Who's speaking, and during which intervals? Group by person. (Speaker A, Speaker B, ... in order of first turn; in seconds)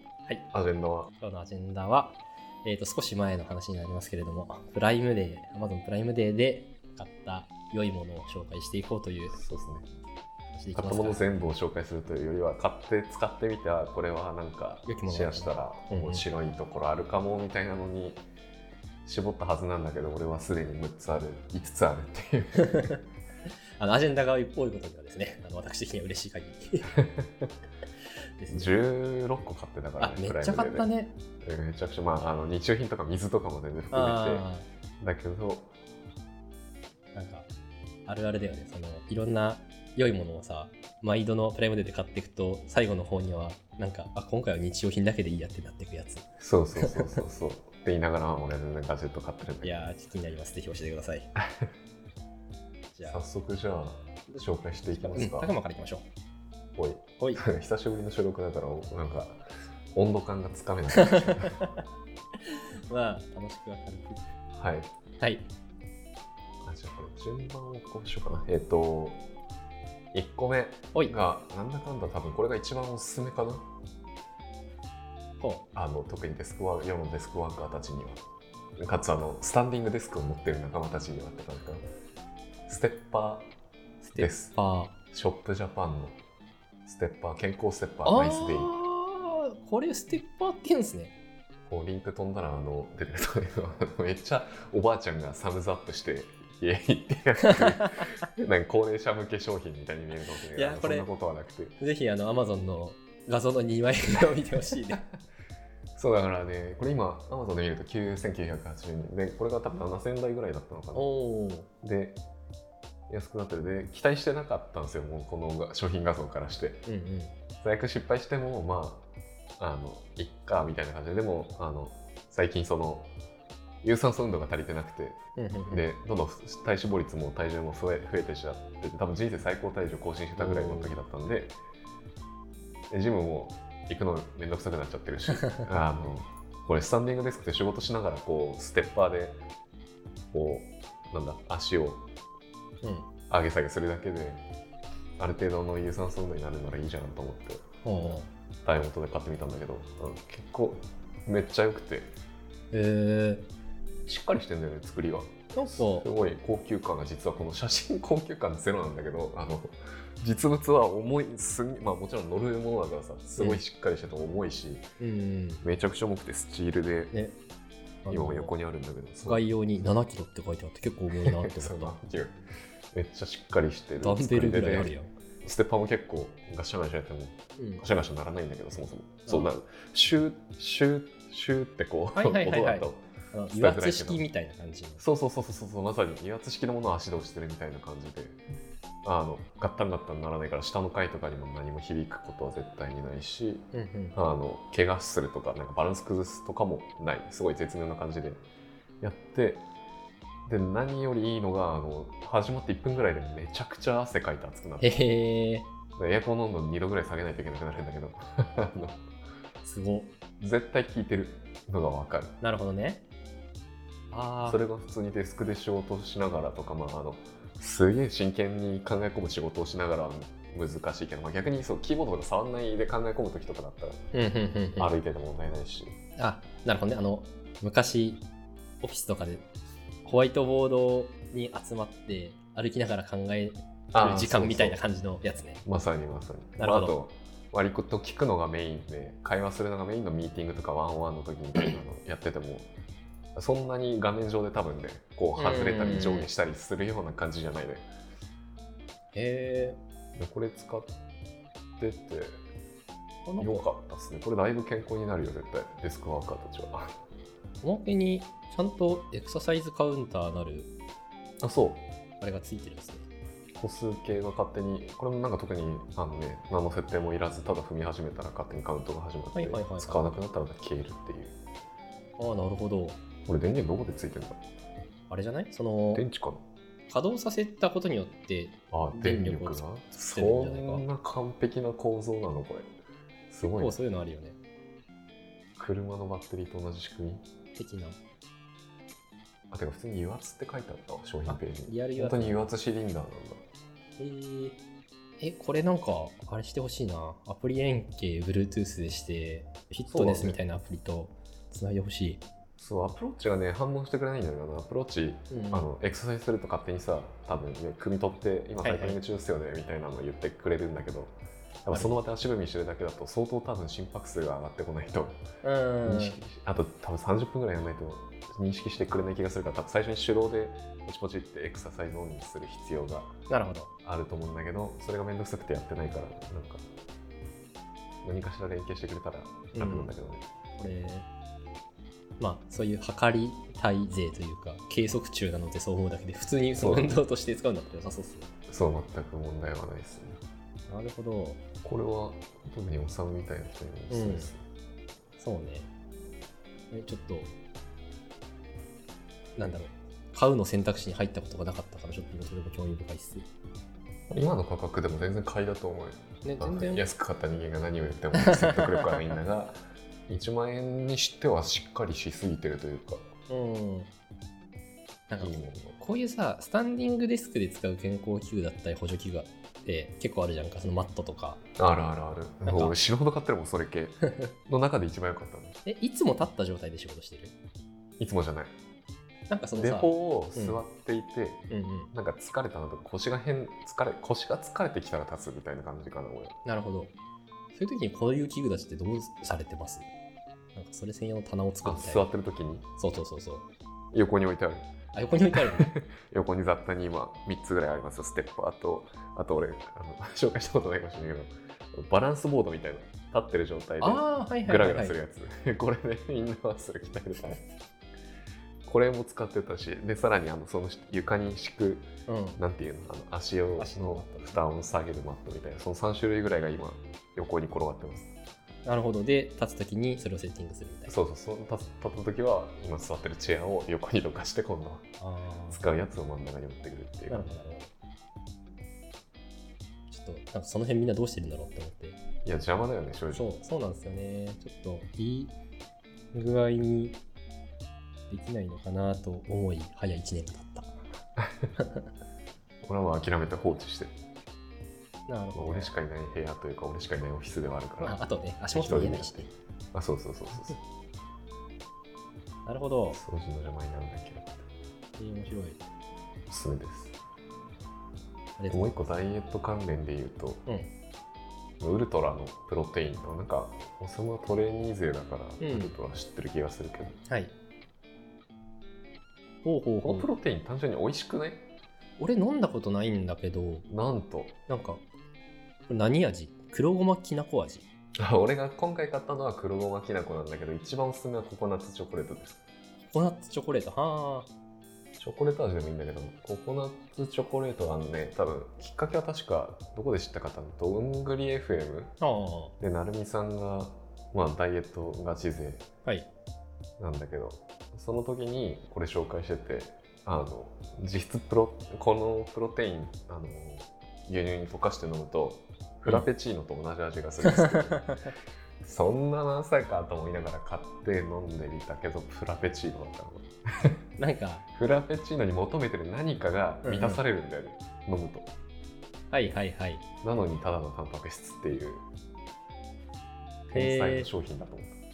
Speaker A: 0.5-1.1, 9.3-9.9, 10.7-18.2, 19.0-22.9, 26.9-27.5, 28.5-30.9, 31.4-34.5, 35.0-35.7, 46.4-49.8, 53.0-55.5, 56.8-61.6, 64.5-64.9, 66.6-69.2, 70.1-73.7, 75.7-78.2, 78.8-81.8, 82.7-83.5, 84.2-84.5, 85.1-86.2, 86.8-88.7, 91.7-101.8, 106.0-111.2, 111.8-112.2, 113.1-116.8, 117.6-119.1, 119.6-123.1, 123.8-131.6, 132.9-139.4, 140.3-142.0, 143.3-144.4, 145.2-147.6, 148.6-152.1, 154.1-164.9, 165.6-167.1, 168.1-169.4, 171.2-172.4, 172.9-184.2, 185.0-188.4, 189.0-198.4, 199.0-199.6, 200.4-204.9, 205.9-209.0, 210.4-212.3, 214.4-224.0, 224.8-226.0, 233.9-234.8, 235.6-242.7, 243.3-247.9, 250.2-250.9, 251.8-252.4, 253.4-256.9, 261.4-261.8, 263.5-271.4, 273.2-274.4, 275.9-276.4, 278.7-282.7, 283.3-283.7, 285.6-287.2, 289.5-293.4, 299.9-300.4, 302.6-315.2, 315.8-323.2, 323.8-326.6, 328.0-330.2, 336.6-336.9, 338.5-340.2, 341.6-344.4, 354.1-363.1, 365.2-365.8, 371.6-375.6, 378.0-378.5, 379.5-386.4, 391.6-392.6, 393.9-394.7, 395.3-407.5, 408.6-418.1, 420.9-424.9, 425.5-427.3, 432.2-433.2, 441.2-441.5, 442.6-443.9, 445.3-450.6, 452.9-454.4, 456.3-456.9, 458.5-460.4, 461.6-467.0, 469.8-471.4, 473.7-474.4, 478.0-482.4, 485.0-491.9, 492.6-495.6, 496.8-507.9, 508.6-513.7, 514.5-518.3, 520.0-521.8, 523.5-524.8
Speaker B: 1.2-9.4, 10.5-11.5, 14.8-16.2, 22.6-23.0, 23.8-26.9, 28.4-28.7, 30.0-31.1, 33.9-34.6, 37.1-37.5, 38.0-46.3, 46.8-47.2, 49.6-51.3, 52.9-53.2, 54.3-56.0, 57.2-57.4, 61.0-61.8, 62.4-64.3, 65.2-65.5, 75.4-75.7, 84.0-85.0, 88.0-91.2, 97.4-98.1, 100.5-101.1, 101.8-105.0, 110.9-111.7, 116.8-117.3, 125.3-125.8, 130.4-130.9, 135.3-135.7, 142.8-143.1, 147.8-148.3, 152.7-153.5, 155.5-156.1, 163.4-163.6, 165.0-165.6, 167.1-167.4, 168.0-168.5, 169.2-172.0, 174.0-175.1, 177.6-177.8, 182.1-185.0, 193.7-194.2, 204.8-205.7, 209.6-210.1, 212.4-213.0, 214.1-214.6, 224.1-224.9, 226.2-228.2, 228.8-229.4, 230.0-235.6, 236.6-236.9, 245.4-246.3, 249.1-249.8, 253.2-253.6, 257.6-260.7, 262.2-263.1, 269.3-270.2, 272.2-273.0, 275.1-276.0, 276.9-280.8, 283.4-284.4, 287.5-288.0, 291.2-292.4, 294.0-294.6, 295.2-302.2, 305.3-305.7, 308.6-309.0, 311.7-312.0, 315.4-316.2, 323.3-323.7, 329.5-329.9, 330.6-331.1, 332.2-338.3, 340.7-341.4, 343.9-344.3, 345.2-345.7, 346.7-347.3, 349.4-353.3, 356.2-356.8, 358.1-359.0, 363.3-363.9, 365.1-371.4, 372.4-372.7, 374.0-374.3, 375.6-377.3, 379.3-380.6, 381.5-381.9, 386.4-386.9, 387.5-389.9, 390.5-392.1, 392.8-393.5, 394.9-395.7, 403.8-404.9, 412.1-412.4, 413.6-414.4, 418.6-420.9, 425.0-425.7, 427.1-427.7, 429.9-432.0, 433.1-435.3, 436.1-437.0, 438.1-440.8, 441.6-441.8, 445.1-445.7, 447.8-449.3, 452.4-453.0, 455.0-455.6, 458.4-458.9, 460.4-460.7, 465.4-465.7, 467.1-467.3, 469.4-470.1, 472.0-473.7, 474.5-474.8, 475.7-477.7, 482.9-484.3, 492.0-492.5, 507.2-508.1, 514.0-514.4, 516.6-517.0, 519.1-519.8, 523.5-524.1